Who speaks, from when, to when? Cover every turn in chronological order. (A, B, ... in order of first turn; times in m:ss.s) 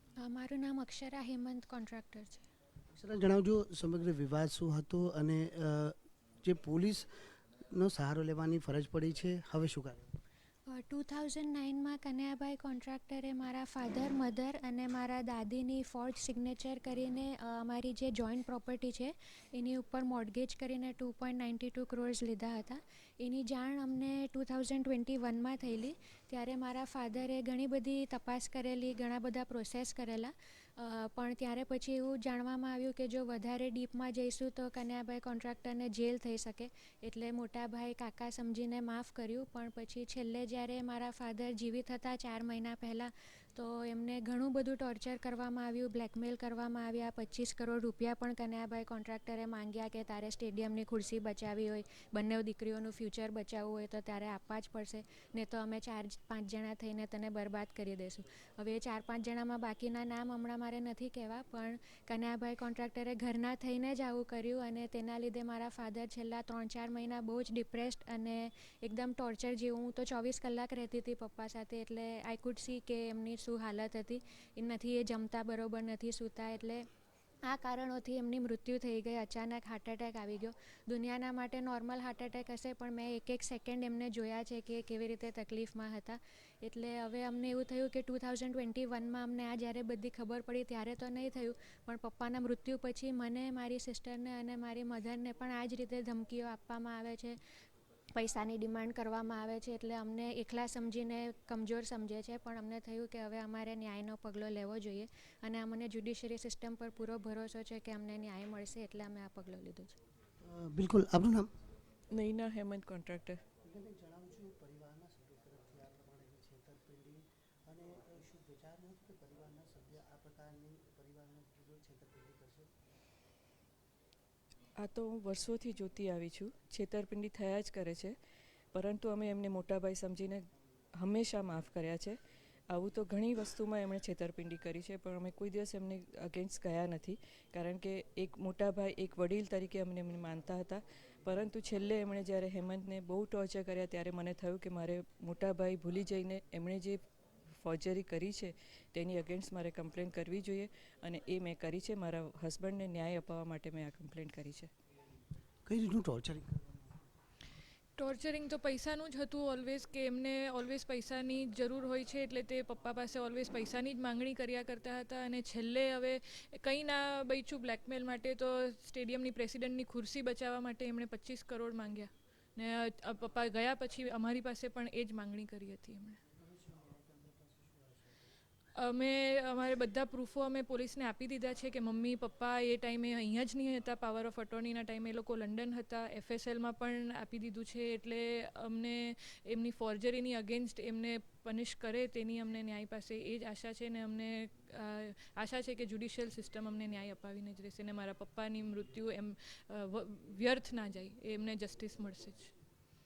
0:00.2-0:02.5 A
0:02.9-0:07.1 B
0:07.7-0:10.0 B
0:10.7-1:16.8 A
1:17.5-1:37.4 A
1:38.2-1:50.0 A
1:50.4-1:51.5 B
1:52.1-1:53.4 C
1:53.6-2:02.7 B
2:04.8-2:08.1 C
2:08.7-2:10.4 C
2:11.0-2:12.2 C
2:12.7-2:27.0 C
2:27.6-2:34.7 C
2:35.7-2:36.8 B
2:38.0-2:56.2 D
2:56.4-2:58.2 B
2:58.8-3:22.5 D